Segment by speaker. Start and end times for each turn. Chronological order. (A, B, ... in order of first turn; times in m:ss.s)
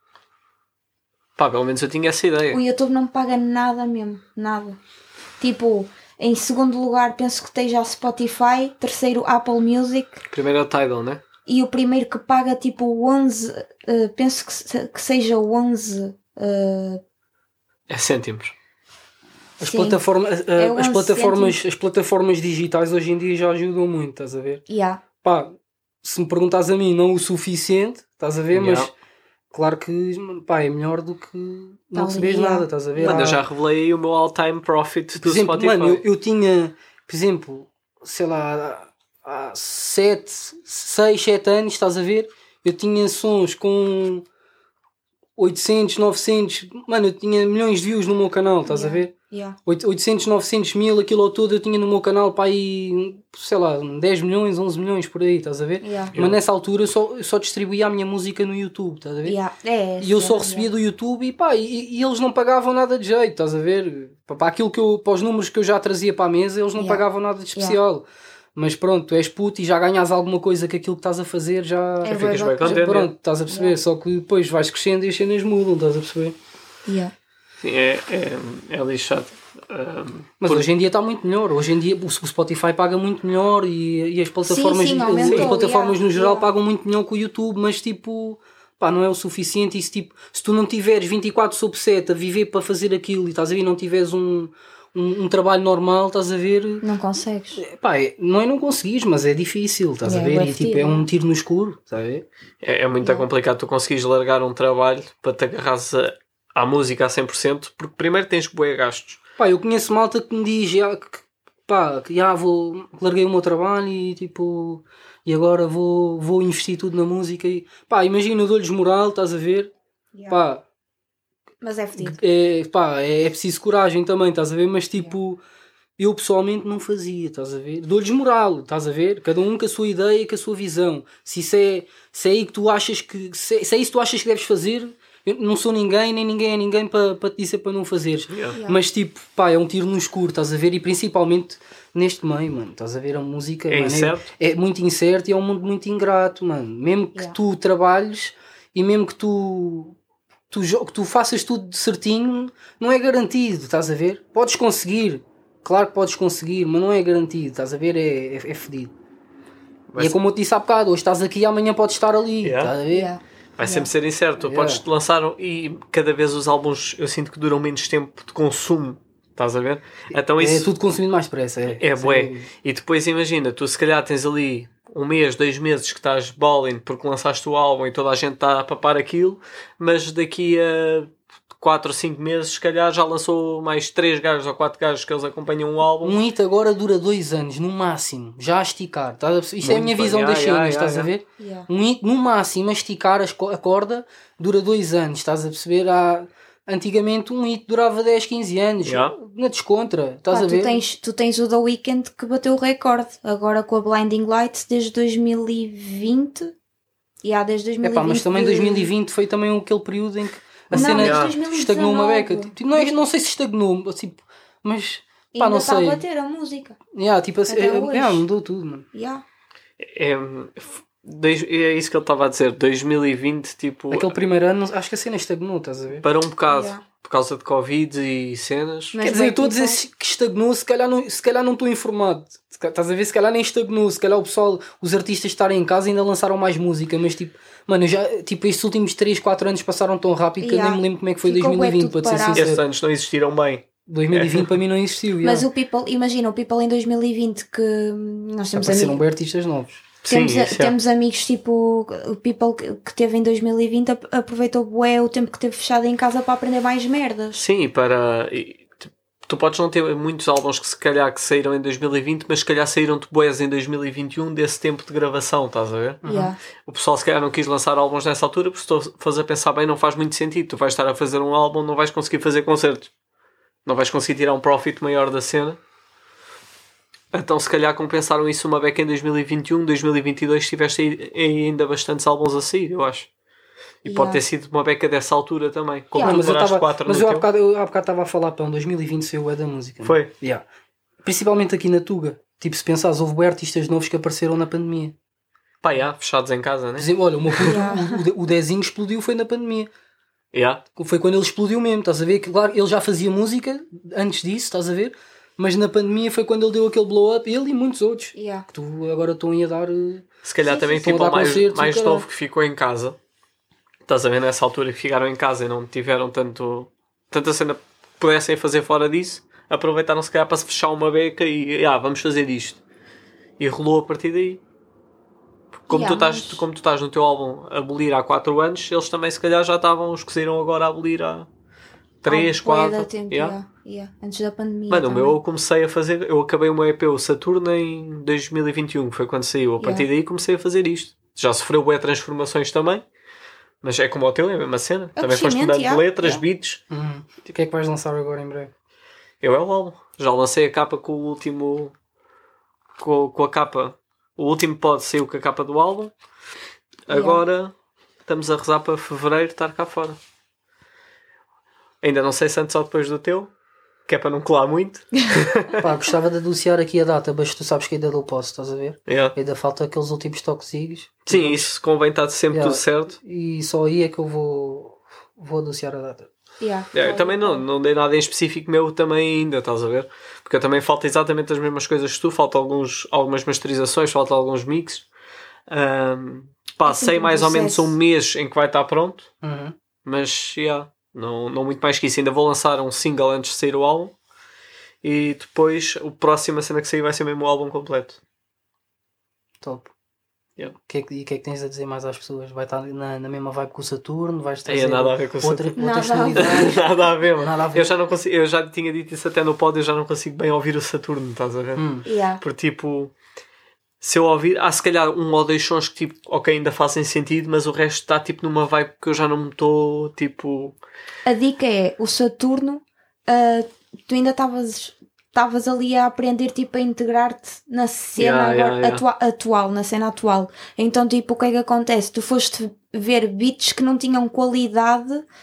0:01.4-0:02.6 A
0:02.5-0:04.8 B
0:05.4-0:10.2 B
0:10.3-0:11.2 A
0:11.4-0:17.0 B
0:17.9-0:18.5 A
0:19.6-0:24.6 C
0:19.6-0:20.0 B
0:20.5-0:21.6 B
0:24.7-0:25.0 B
0:25.2-0:28.9 C
0:28.5-0:28.9 A
0:29.5-0:33.4 C
0:31.9-0:33.3 B
0:33.0-0:36.0 A
0:35.2-0:44.2 C
0:45.4-0:49.1 C
0:48.6-0:49.6 B
0:49.6-0:59.4 C
0:55.8-0:56.1 B
0:59.2-1:00.7 B
1:00.0-1:16.4 C
1:06.8-1:07.0 B
1:12.0-1:12.9 B
1:12.0-1:13.1 A
1:13.5-1:13.8 B
1:16.9-1:17.1 B
1:17.6-1:20.6 A
1:20.4-1:36.8 C
1:24.5-1:26.5 B
1:25.2-1:25.5 A
1:36.8-1:37.6 B
1:37.6-1:42.2 C
1:40.0-1:41.1 B
1:42.6-1:49.2 A
1:43.0-1:43.3 B
1:49.4-1:59.7 C
2:00.1-2:00.4 B
2:00.3-2:00.6 C
2:01.6-2:02.2 B
2:02.0-2:05.4 C
2:06.0-2:30.0 C
2:18.3-2:18.6 A
2:18.5-2:18.8 B
2:23.7-2:24.3 A
2:30.5-2:38.9 C
2:39.9-2:40.1 A
2:40.0-2:43.1 C
2:42.4-2:42.7 A
2:42.9-2:43.9 B
2:43.6-2:50.7 A
2:44.4-2:44.8 C
2:50.1-2:52.5 C
2:51.8-3:06.2 A
3:06.0-3:20.8 C
3:09.6-3:11.1 A
3:11.4-3:11.7 B
3:18.8-3:19.1 A
3:20.3-3:26.5 B
3:27.2-3:28.9 B
3:27.8-3:36.0 C
3:30.7-3:31.4 A
3:30.7-3:33.0 B
3:35.3-3:36.8 B
3:36.9-3:38.8 C
3:37.5-3:38.2 B
3:38.9-3:39.2 B
3:39.8-3:44.1 A
3:43.9-3:46.0 C
3:46.0-3:49.0 A
3:46.5-3:46.8 B
3:48.9-3:49.8 B
3:49.0-4:02.6 C
4:00.4-4:02.4 B
4:02.3-4:04.5 A
4:03.8-4:05.4 C
4:05.2-4:09.0 B
4:08.5-4:09.8 C
4:10.0-4:10.7 A
4:10.1-4:17.4 B
4:17.4-4:26.0 A
4:26.0-4:26.3 C
4:26.0-4:26.4 B
4:26.6-4:32.9 A
4:33.6-4:35.6 A
4:37.1-4:43.1 A
4:43.8-4:47.3 A
4:43.8-4:44.2 B
4:45.9-4:46.3 B
4:46.0-4:50.4 C
4:49.8-4:50.1 A
4:51.0-4:54.9 C
4:55.6-4:57.6 A
4:56.8-4:59.7 C
4:57.4-4:58.0 B
5:00.3-5:00.6 A
5:00.8-5:12.0 C
5:08.1-5:08.5 B
5:10.2-5:13.0 A
5:10.5-5:10.8 B
5:13.9-5:22.6 A
5:23.4-5:24.4 A
5:25.6-5:31.3 A
5:25.7-5:26.4 B
5:32.0-5:33.4 A
5:32.1-5:35.2 B
5:34.7-5:42.8 A
5:39.6-5:39.9 B
5:43.6-5:46.6 A
5:45.0-5:46.2 B
5:46.7-5:48.5 C
5:49.2-5:51.7 A
5:52.8-5:55.9 A
5:56.9-5:57.5 A
5:56.9-5:57.2 B
5:58.0-6:00.0 A
6:01.8-6:03.3 A
6:03.9-6:05.7 A
6:05.6-6:11.5 C
6:08.9-6:09.1 A
6:11.0-6:13.0 A
6:12.3-6:16.1 C
6:16.4-6:17.4 B
6:16.7-6:24.8 A
6:25.5-6:29.1 A
6:26.6-6:27.7 B
6:29.2-6:29.5 C
6:29.8-6:33.9 A
6:34.8-6:38.0 A
6:39.4-6:39.7 C
6:40.6-6:47.7 C
6:44.4-6:45.5 A
6:45.6-6:46.5 B
6:46.2-6:51.7 A
6:51.6-6:51.8 C
6:51.8-6:52.2 B
6:52.2-6:52.9 A
6:53.8-7:00.6 A
7:01.0-7:15.0 B
7:08.0-7:08.8 A